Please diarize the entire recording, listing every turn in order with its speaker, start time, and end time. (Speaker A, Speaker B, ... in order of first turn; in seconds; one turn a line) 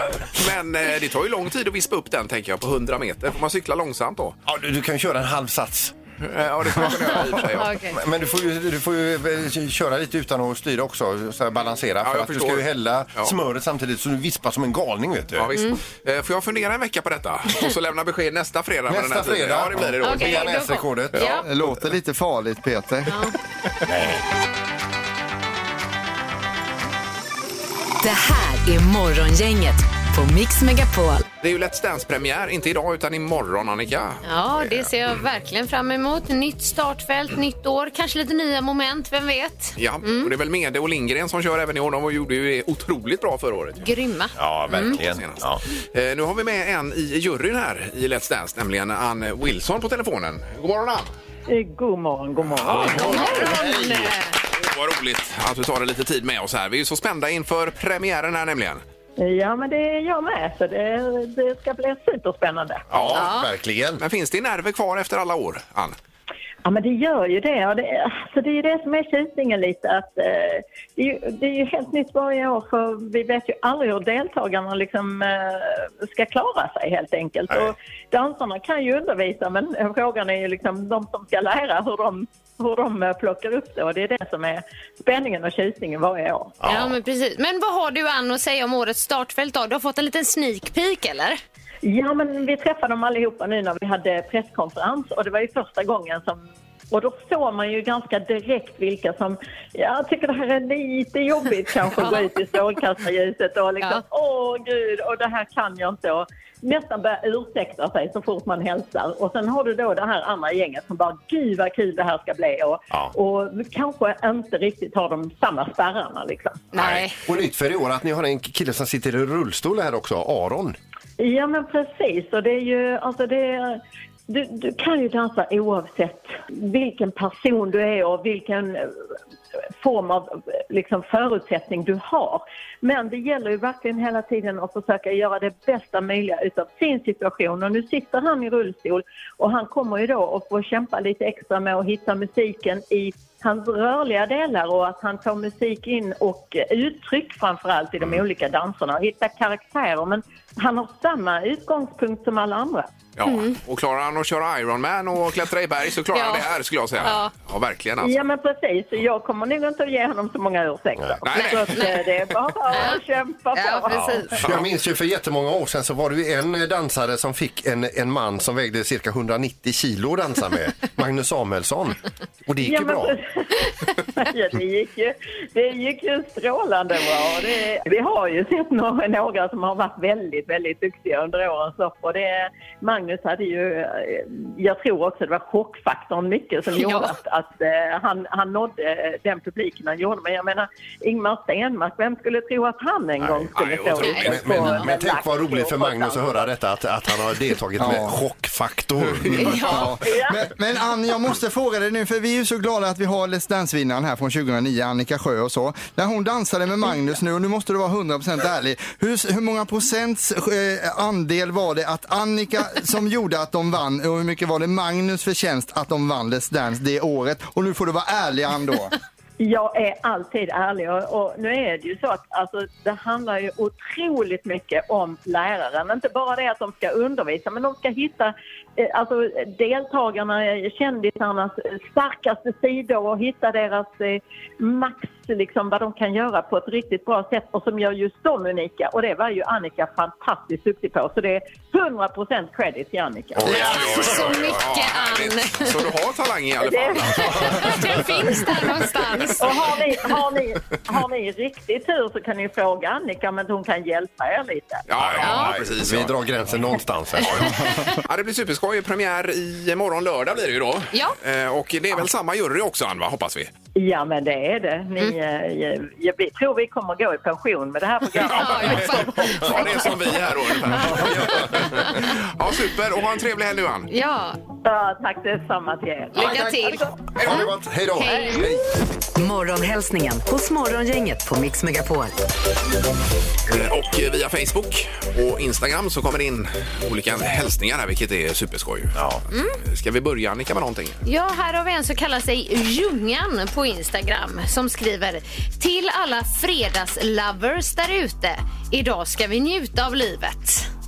Speaker A: 0.3-4.4
Speaker B: 4.5-5.9
Speaker A: 6.2-7.8
Speaker B: 6.8-15.5
Speaker C: 7.6-8.0
Speaker A: 12.0-13.3
Speaker A: 15.3-21.4
Speaker C: 15.5-15.8
Speaker B: 18.9-21.4
Speaker C: 20.0-21.4
Speaker D: 21.4-23.3
Speaker C: 23.1-23.3
Speaker B: 23.9-24.2
Speaker E: 28.0-31.2
Speaker A: 31.4-34.9
Speaker C: 34.2-40.3
Speaker A: 39.8-43.9
Speaker C: 43.8-45.0
Speaker B: 44.4-45.6
Speaker A: 44.7-51.1
Speaker F: 51.5-53.8
Speaker B: 52.6-54.1
Speaker A: 52.6-53.4
Speaker C: 52.9-54.3
Speaker A: 54.6-58.8
Speaker F: 59.2-62.9
Speaker B: 62.9-64.0
Speaker A: 62.9-63.3
Speaker C: 63.1-63.5
Speaker A: 64.0-66.0
Speaker F: 66.6-86.6
Speaker B: 86.6-87.0
Speaker C: 86.6-91.4
Speaker F: 91.8-116.7
Speaker C: 102.0-102.2
Speaker C: 116.7-117.2
Speaker B: 116.8-120.8
Speaker F: 121.2-128.9
Speaker F: 129.8-152.9
Speaker A: 153.2-158.2
Speaker C: 153.2-153.6
Speaker C: 156.1-156.4
Speaker C: 157.0-157.3
Speaker F: 158.0-164.4
Speaker A: 161.2-162.1
Speaker C: 161.3-162.0
Speaker C: 162.7-163.0
Speaker C: 163.5-164.4
Speaker B: 163.9-173.1
Speaker A: 164.4-164.7
Speaker F: 172.6-196.5
Speaker C: 186.8-187.1
Speaker B: 193.2-193.5
Speaker A: 193.5-194.7
Speaker C: 194.0-194.9
Speaker B: 194.3-199.8
Speaker D: 197.8-198.2
Speaker D: 199.2-218.9
Speaker C: 199.3-200.1
Speaker F: 200.0-200.4
Speaker F: 219.4-243.8
Speaker B: 243.4-244.6
Speaker A: 243.4-247.9
Speaker C: 243.4-245.8
Speaker F: 246.6-247.6
Speaker C: 247.0-249.6
Speaker B: 247.1-247.8
Speaker F: 249.4-254.8
Speaker A: 254.9-256.1
Speaker B: 255.0-257.8
Speaker C: 255.2-255.5
Speaker A: 257.2-263.5
Speaker C: 257.4-257.9
Speaker C: 260.9-261.2
Speaker F: 263.8-269.7
Speaker C: 268.2-269.9
Speaker A: 268.2-273.9
Speaker B: 270.7-272.0
Speaker C: 271.5-271.9
Speaker C: 273.9-274.4
Speaker F: 274.6-277.0
Speaker C: 276.1-278.5
Speaker B: 277.1-278.6
Speaker E: 279.1-282.1
Speaker A: 283.5-289.0
Speaker B: 288.9-289.2
Speaker C: 289.3-289.6
Speaker A: 289.6-291.0
Speaker C: 291.0-300.7